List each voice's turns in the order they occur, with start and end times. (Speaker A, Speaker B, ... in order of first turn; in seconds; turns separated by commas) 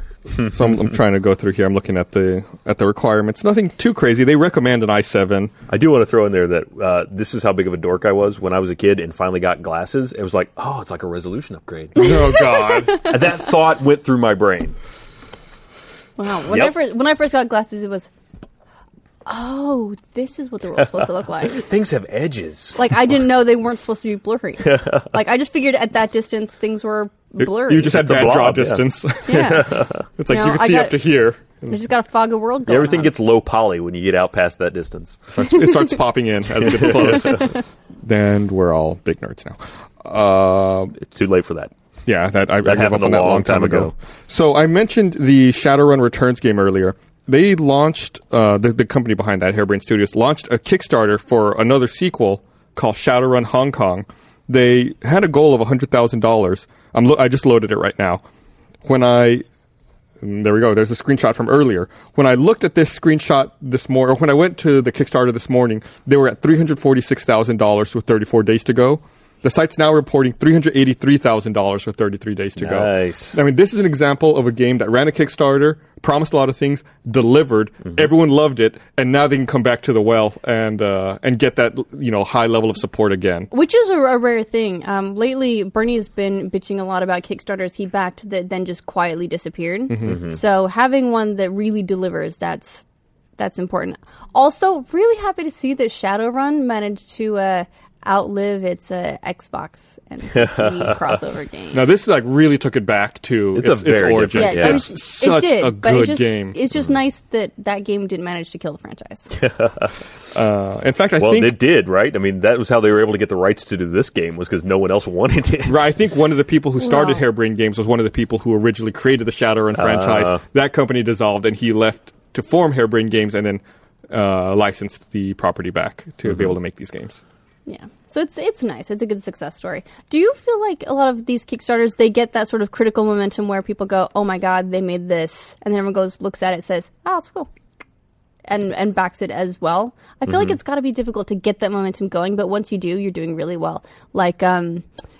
Speaker A: 0.5-5.5, Speaker B: 5.7-12.1, Speaker A: 11.9-13.1, Speaker C: 12.0-13.1, Speaker B: 12.9-14.8, Speaker C: 16.2-18.1, Speaker B: 16.5-16.7, Speaker C: 19.2-21.6, Speaker B: 21.4-22.8, Speaker C: 22.8-27.9, Speaker B: 24.7-25.0, Speaker A: 27.4-29.6, Speaker B: 27.8-30.0, Speaker C: 29.3-33.1, Speaker A: 30.2-31.8, Speaker B: 32.6-35.2, Speaker A: 35.3-41.0, Speaker B: 36.6-37.4, Speaker B: 41.0-41.7, Speaker A: 42.1-58.2, Speaker B: 42.6-43.9, Speaker A: 58.8-59.4, Speaker A: 60.2-83.5, Speaker B: 72.6-73.4, Speaker C: 83.5-92.8, Speaker A: 89.9-90.2, Speaker B: 90.1-90.4, Speaker C: 93.4-101.8, Speaker B: 100.3-101.0, Speaker A: 101.7-106.6, Speaker B: 103.5-104.8, Speaker C: 104.3-109.3, Speaker B: 109.3-109.9, Speaker A: 110.3-111.5, Speaker B: 111.2-115.8, Speaker A: 115.7-127.2, Speaker C: 116.8-117.2, Speaker B: 119.8-120.4, Speaker C: 127.7-137.5, Speaker C: 138.4-144.8, Speaker B: 140.3-140.6